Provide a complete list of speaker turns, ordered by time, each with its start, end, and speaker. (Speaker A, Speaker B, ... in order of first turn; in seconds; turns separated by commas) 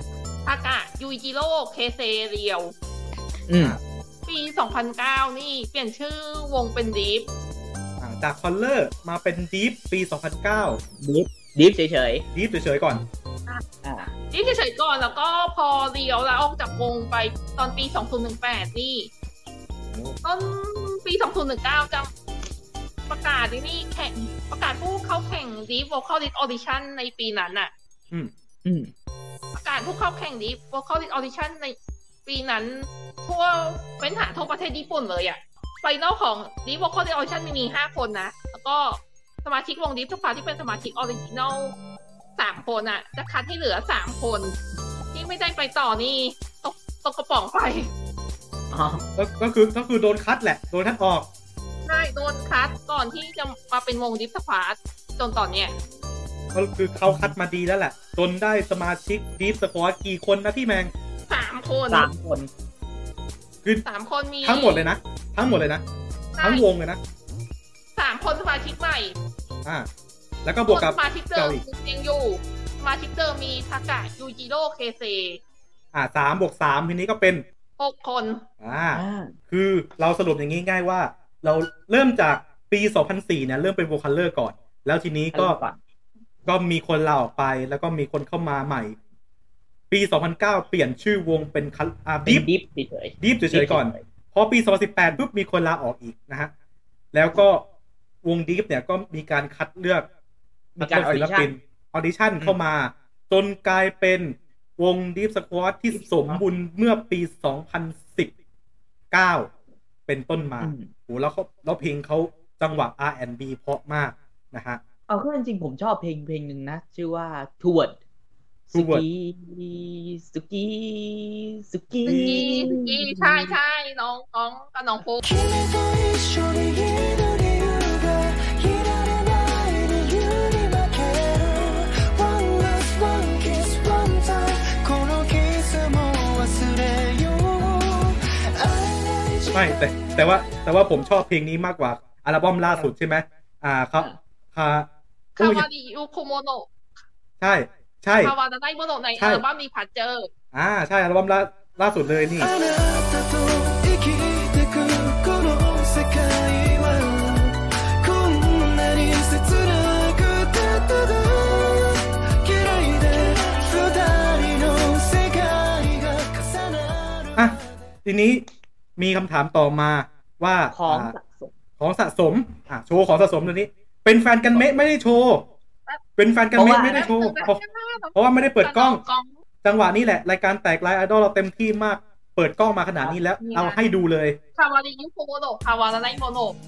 Speaker A: 0.4-2.7, Speaker B: 3.5-3.8, Speaker C: 3.5-3.8, Speaker A: 4.2-7.3, Speaker C: 8.0-10.8, Speaker B: 11.0-12.2, Speaker C: 12.3-13.0, Speaker B: 13.8-14.1, Speaker A: 14.3-19.1, Speaker C: 19.9-20.2, Speaker A: 20.2-22.1, Speaker A: 23.1-27.7, Speaker B: 28.6-28.9, Speaker A: 29.5-41.7, Speaker A: 42.4-44.5, Speaker A: 45.1-47.9, Speaker B: 48.7-49.0, Speaker C: 49.1-51.3, Speaker A: 51.9-55.7, Speaker C: 56.5-60.9, Speaker B: 57.0-57.3, Speaker A: 61.3-62.1, Speaker B: 61.9-62.5, Speaker A: 63.8-64.9, Speaker C: 64.4-65.8, Speaker A: 66.4-66.6, Speaker C: 66.4-67.0, Speaker A: 68.0-69.2, Speaker C: 70.4-71.6, Speaker A: 70.7-75.4, Speaker C: 75.9-77.4, Speaker A: 77.8-78.4, Speaker C: 78.6-85.6, Speaker B: 78.9-79.3, Speaker B: 85.3-85.8, Speaker C: 86.5-89.0, Speaker C: 89.9-92.5, Speaker B: 92.2-94.0, Speaker C: 93.2-96.5, Speaker C: 97.1-97.6, Speaker C: 98.2-100.1, Speaker C: 100.8-108.3, Speaker B: 100.8-101.5, Speaker B: 106.0-106.4, Speaker C: 109.1-109.5, Speaker C: 110.1-114.8, Speaker B: 110.6-110.9, Speaker B: 115.1-118.0, Speaker B: 118.7-123.5, Speaker C: 118.7-119.0, Speaker C: 122.0-122.5, Speaker A: 122.0-125.2, Speaker D: 125.2-139.7, Speaker C: 139.5-144.9, Speaker A: 145.3-146.7, Speaker C: 145.4-145.7, Speaker C: 147.4-148.3, Speaker A: 148.2-150.3, Speaker C: 149.2-149.4, Speaker C: 150.5-152.5, Speaker D: 152.4-167.7, Speaker C: 167.3-171.1, Speaker B: 170.7-171.5, Speaker C: 171.8-175.5, Speaker C: 176.2-177.6, Speaker B: 176.5-177.5, Speaker A: 176.9-179.3, Speaker C: 178.1-179.0, Speaker C: 179.6-184.4, Speaker A: 183.4-183.8, Speaker A: 184.6-186.6